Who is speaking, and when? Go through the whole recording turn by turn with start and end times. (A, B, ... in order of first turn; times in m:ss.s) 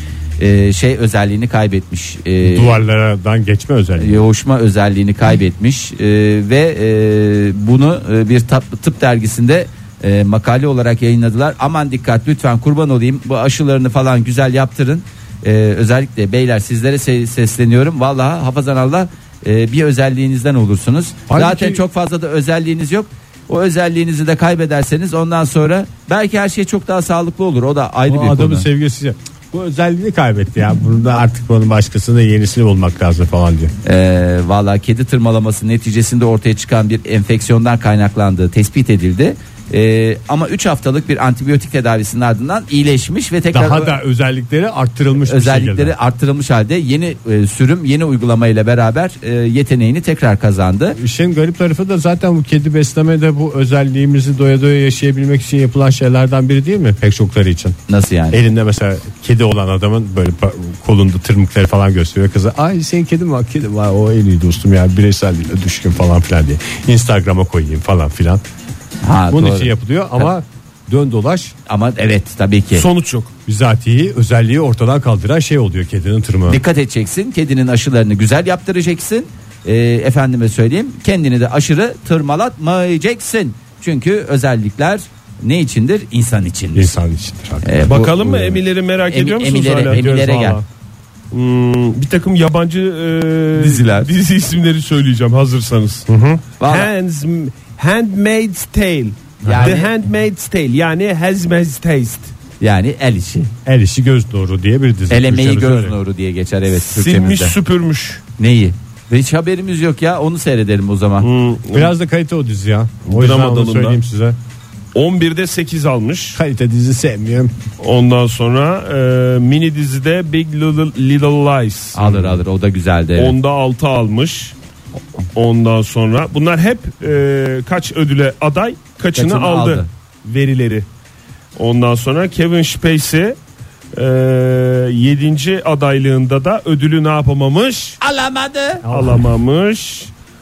0:00.4-0:02.8 A
0:02.4-0:04.3 B
0:04.0-0:28.7 A
0:21.3-0:21.8 B
0:28.1-0:33.7 B
0:33.8-0:44.0 A
0:43.5-0:46.0 B
0:45.2-0:51.0 A
0:51.0-0:57.8 B
0:57.9-0:58.4 A
0:58.3-1:08.4 B
1:09.0-1:10.3 A
1:09.3-1:11.6 B
1:11.7-1:12.9 A
1:12.7-1:13.3 C
1:13.5-1:16.6 B
1:16.5-1:26.9 A
1:26.8-1:28.6 B
1:27.6-1:28.2 A
1:27.9-1:30.5 C
1:29.1-1:30.6 A
1:30.0-1:30.6 B
1:31.3-1:36.1 C
1:33.6-1:34.1 A
1:36.1-1:36.4 B
1:36.6-1:36.9 A
1:36.6-1:42.3 C
1:39.4-1:39.9 A
1:39.4-1:39.7 B
1:42.6-1:43.5 A
1:43.7-1:46.0 B
1:45.1-1:47.6 A
1:46.7-1:48.2 C
1:48.4-1:51.3 A
1:51.2-1:51.9 C
1:51.7-1:54.4 B
1:53.1-1:54.0 C
1:55.0-1:56.4 C
1:56.4-1:57.5 B
1:57.8-2:02.2 C
2:01.9-2:03.4 A
2:03.2-2:04.6 C
2:05.4-2:10.9 C
2:09.2-2:09.9 A
2:11.6-2:13.4 C
2:14.0-2:18.0 C
2:18.0-2:18.9 A
2:18.9-2:20.1 C
2:18.9-2:19.3 B